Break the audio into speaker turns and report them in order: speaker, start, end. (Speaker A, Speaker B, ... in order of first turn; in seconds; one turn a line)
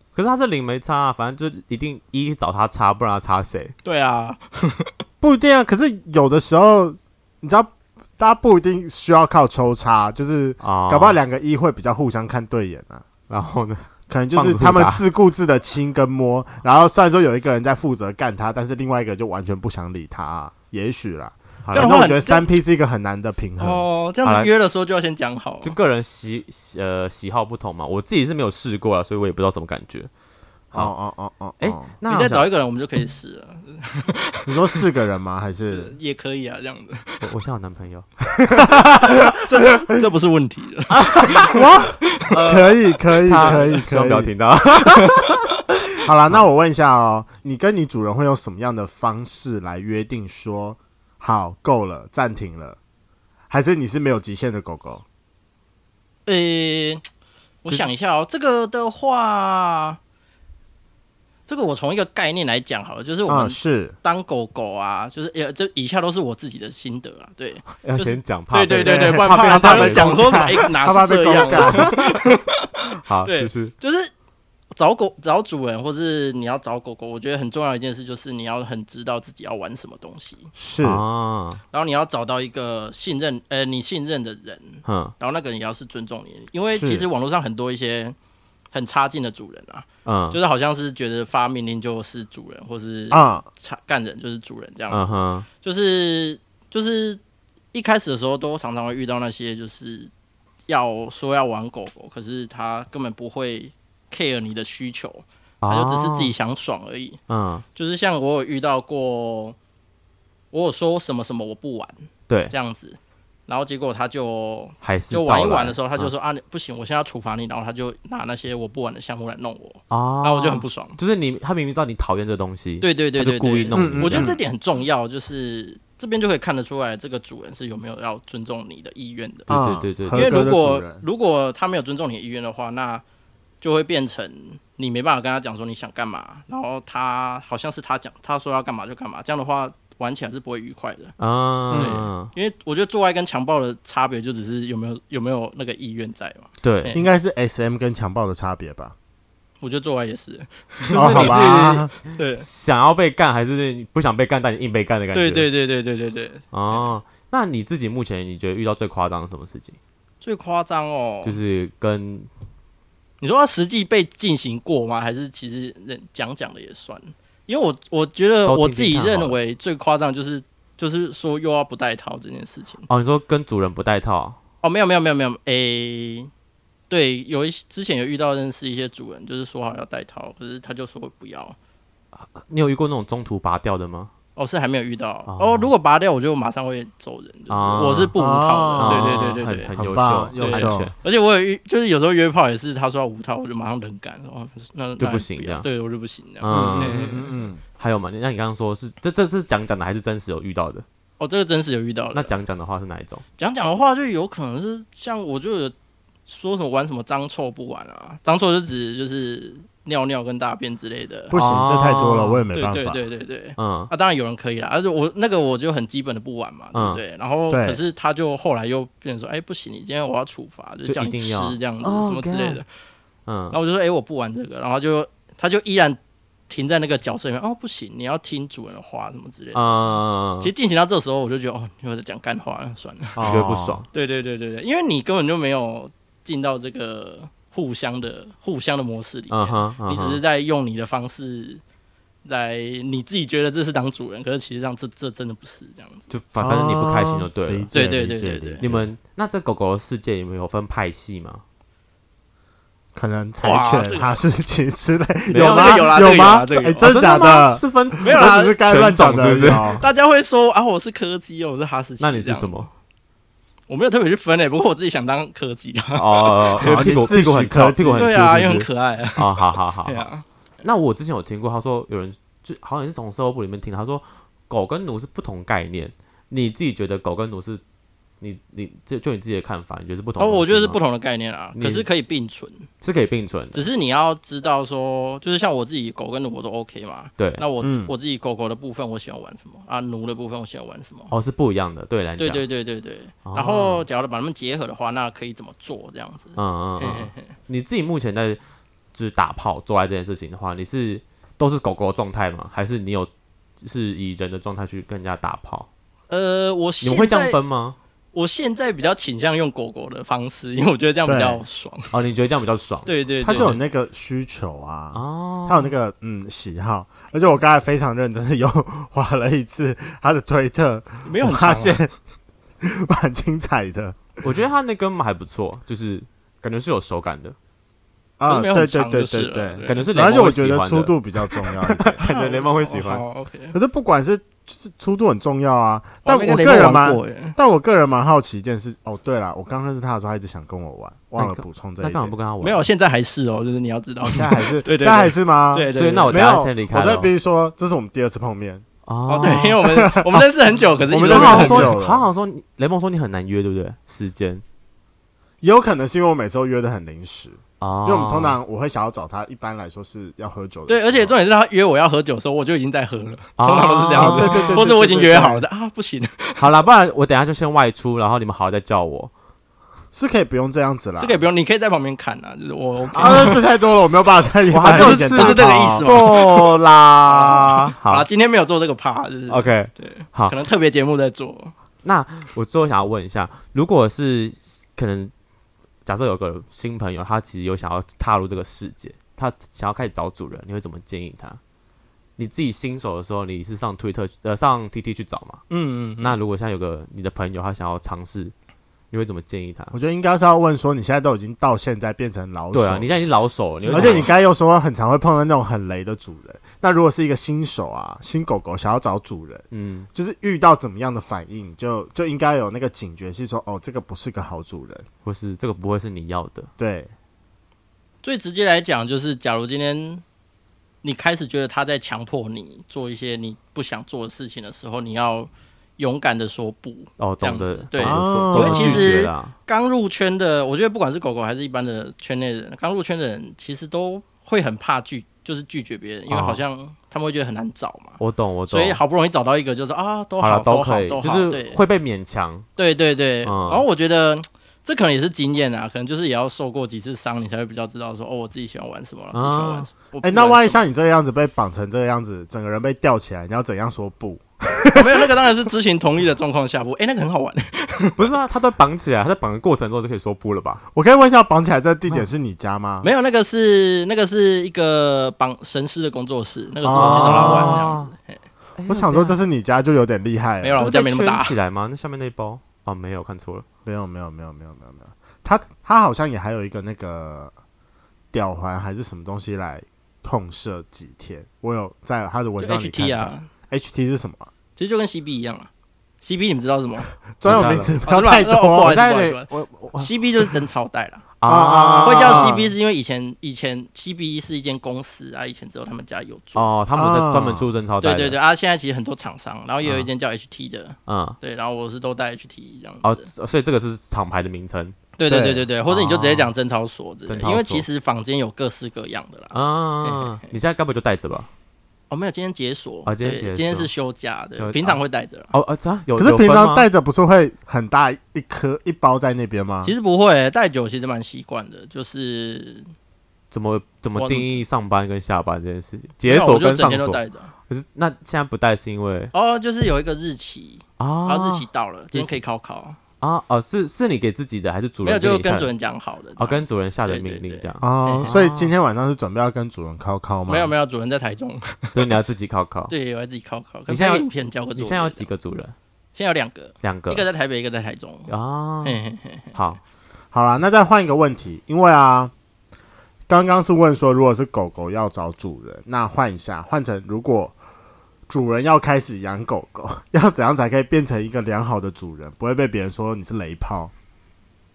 Speaker A: 0.1-3.7
Speaker B: 3.8-4.9
Speaker C: 5.2-13.0
Speaker A: 10.6-11.2
Speaker A: 13.3-15.0
Speaker C: 14.1-23.8
Speaker A: 21.6-22.0
Speaker B: 21.7-22.4
Speaker B: 23.6-25.7
Speaker A: 24.2-24.5
Speaker A: 25.6-30.1
Speaker C: 30.7-31.9
Speaker A: 31.6-32.5
Speaker B: 32.1-34.8
Speaker C: 34.5-35.9
Speaker B: 35.7-37.3
Speaker A: 37.2-38.6
Speaker C: 38.5-39.4
Speaker B: 38.9-41.6
Speaker A: 40.9-41.6
Speaker C: 41.5-44.3
Speaker A: 42.3-46.4
Speaker B: 44.9-45.2
Speaker C: 46.0-52.8
Speaker C: 53.5-55.0
Speaker B: 56.2-57.0
Speaker B: 57.6-60.0
Speaker B: 61.5-74.1
Speaker C: 63.3-63.9
Speaker A: 67.8-70.7
Speaker C: 68.7-72.0
Speaker A: 71.5-72.2
Speaker A: 73.0-73.7
Speaker B: 74.7-80.5
Speaker C: 80.5-81.0
Speaker A: 80.8-81.6
Speaker B: 81.7-88.2
Speaker A: 84.8-85.1
Speaker C: 86.7-87.0
Speaker B: 88.7-97.2
Speaker A: 90.0-90.4
Speaker C: 93.1-93.4
Speaker A: 94.9-95.5
Speaker B: 97.7-100.1
Speaker B: 100.7-107.2
Speaker A: 105.6-106.3
Speaker A: 107.3-107.6
Speaker B: 107.7-109.6
Speaker B: 110.5-121.0
Speaker A: 112.3-112.5
Speaker A: 114.8-116.1
Speaker A: 119.9-124.3
Speaker B: 122.8-129.5
Speaker C: 123.7-124.4
Speaker A: 129.5-130.4
Speaker C: 129.5-131.0
Speaker B: 130.1-133.0
Speaker B: 133.6-141.2
Speaker A: 141.2-142.3
Speaker C: 141.7-142.0
Speaker B: 141.7-147.1
Speaker A: 146.6-146.9
Speaker C: 146.9-148.9
Speaker B: 149.6-151.5
Speaker A: 150.9-155.5
Speaker C: 150.9-151.9
Speaker B: 152.1-152.4
Speaker B: 155.1-156.9
Speaker A: 156.5-159.8
Speaker B: 160.2-161.4
Speaker A: 161.2-162.3
Speaker B: 163.2-172.8
Speaker A: 168.4-169.3
Speaker A: 172.9-174.4
Speaker B: 174.6-176.3
Speaker B: 176.9-181.6
Speaker A: 182.1-184.1
Speaker B: 184.3-189.7
Speaker A: 185.3-185.7
Speaker A: 187.5-188.1
Speaker C: 188.2-190.9
Speaker A: 188.8-190.9
Speaker B: 190.4-197.3
Speaker A: 195.0-195.7
Speaker A: 196.4-197.2
Speaker C: 196.5-197.6
Speaker A: 197.8-200.8
Speaker B: 201.2-202.4
Speaker A: 202.1-203.2
Speaker B: 203.4-205.7
Speaker B: 206.3-211.4
Speaker C: 211.3-213.0
Speaker A: 211.3-212.4
Speaker B: 212.0-222.7
Speaker A: 213.6-213.9
Speaker A: 216.7-217.0
Speaker C: 217.5-217.8
Speaker A: 220.8-222.6
Speaker A: 223.2-223.6
Speaker B: 223.5-233.2
Speaker A: 229.5-230.5
Speaker C: 233.2-233.8
Speaker A: 233.2-233.8
Speaker B: 233.9-241.6
Speaker A: 239.3-240.2
Speaker B: 242.2-246.1
Speaker A: 246.1-247.7
Speaker C: 246.4-248.9
Speaker B: 247.7-248.6
Speaker A: 248.6-251.4
Speaker C: 252.9-259.8
Speaker B: 253.4-254.2
Speaker A: 255.3-256.3
Speaker B: 255.3-256.9
Speaker A: 256.8-259.8
Speaker B: 258.0-258.6
Speaker B: 259.8-262.7
Speaker A: 262.0-262.7
Speaker B: 263.7-266.9
Speaker A: 265.9-270.1
Speaker C: 266.6-268.6
Speaker B: 267.9-270.2
Speaker A: 270.6-277.6
Speaker A: 278.2-280.8
Speaker B: 280.2-282.7
Speaker A: 281.5-281.9
Speaker A: 282.8-283.7
Speaker B: 283.5-291.1
Speaker A: 287.2-287.4
Speaker C: 287.6-287.9
Speaker A: 291.1-292.4
Speaker B: 292.2-297.3
Speaker A: 293.2-293.9
Speaker A: 296.4-298.4
Speaker A: 298.9-303.1
Speaker A: 303.6-305.7
Speaker B: 306.1-307.4
Speaker A: 306.8-307.8
Speaker B: 308.1-311.9
Speaker C: 311.1-311.4
Speaker A: 311.9-313.6
Speaker B: 312.9-313.6
Speaker C: 313.2-321.9
Speaker A: 314.9-315.7
Speaker B: 321.0-321.8
Speaker C: 322.6-324.2
Speaker A: 324.2-327.4
Speaker C: 328.2-332.0
Speaker B: 328.2-329.9
Speaker A: 329.6-333.0
Speaker B: 332.0-333.6
Speaker C: 333.5-342.1
Speaker B: 336.0-337.4
Speaker A: 341.2-342.7
Speaker B: 342.4-346.3
Speaker C: 344.0-348.6
Speaker A: 345.7-347.1
Speaker A: 348.9-349.7
Speaker B: 349.1-351.8
Speaker C: 349.2-350.2
Speaker C: 350.9-352.1
Speaker A: 351.0-354.4
Speaker C: 355.4-361.1
Speaker A: 357.6-358.4
Speaker B: 360.7-366.4
Speaker A: 363.4-364.6
Speaker C: 363.9-365.4
Speaker A: 366.4-369.1
Speaker C: 369.9-371.2
Speaker B: 371.0-373.4
Speaker A: 372.9-373.4
Speaker C: 373.0-376.1
Speaker A: 374.5-378.1
Speaker B: 374.6-376.5
Speaker B: 377.0-381.5
Speaker A: 379.3-380.4
Speaker A: 381.8-385.1
Speaker A: 385.9-391.4
Speaker A: 392.2-395.4
Speaker B: 395.5-396.2
Speaker A: 396.0-398.3
Speaker A: 398.9-399.7
Speaker C: 399.7-403.0
Speaker A: 402.5-404.1
Speaker B: 403.6-404.1
Speaker C: 403.7-414.9
Speaker A: 409.5-409.9
Speaker A: 415.0-416.5
Speaker C: 416.6-416.9
Speaker B: 418.0-420.0
Speaker B: 420.8-441.6
Speaker A: 427.0-429.3
Speaker C: 427.8-428.9
Speaker A: 436.1-436.4
Speaker A: 438.0-438.8
Speaker A: 440.2-442.5
Speaker B: 442.6-450.6
Speaker A: 443.2-443.6
Speaker A: 449.1-449.7
Speaker C: 450.0-455.2
Speaker B: 454.7-458.0
Speaker A: 458.0-460.6
Speaker C: 460.7-462.9
Speaker B: 462.8-468.2
Speaker C: 466.6-467.6
Speaker A: 466.7-467.9
Speaker A: 468.6-469.2
Speaker C: 468.7-470.6
Speaker B: 470.4-471.4
Speaker A: 470.6-473.4
Speaker C: 473.6-477.3
Speaker C: 478.1-484.3
Speaker B: 482.4-483.3
Speaker B: 484.6-485.5
Speaker B: 486.0-491.0
Speaker C: 487.2-488.8
Speaker A: 487.2-487.8
Speaker A: 488.6-490.3
Speaker A: 491.2-492.4
Speaker C: 491.2-492.5
Speaker B: 491.8-496.5
Speaker A: 496.3-498.2
Speaker C: 496.7-497.4
Speaker B: 497.8-503.1
Speaker A: 500.9-501.2
Speaker A: 502.8-504.8
Speaker B: 505.0-510.3
Speaker C: 505.1-505.4
Speaker A: 505.6-506.3
Speaker A: 507.1-507.6
Speaker A: 509.3-511.3
Speaker B: 511.9-515.3
Speaker A: 512.9-513.7
Speaker A: 514.3-514.8
Speaker A: 515.3-516.7
Speaker C: 516.0-519.7
Speaker B: 519.6-522.7
Speaker A: 523.3-529.1
Speaker B: 524.0-524.4
Speaker B: 526.0-527.3
Speaker B: 529.1-532.8
Speaker A: 530.8-532.2
Speaker A: 533.0-535.5
Speaker B: 534.8-538.1
Speaker A: 536.2-538.5
Speaker C: 537.6-540.5
Speaker B: 540.3-541.9
Speaker A: 541.7-542.7
Speaker B: 542.7-545.1
Speaker A: 543.7-545.5
Speaker B: 545.9-548.1
Speaker A: 546.6-547.1
Speaker A: 548.1-548.8
Speaker B: 548.6-549.3
Speaker A: 549.3-549.6
Speaker C: 550.1-552.1
Speaker C: 553.1-557.3
Speaker C: 558.1-563.7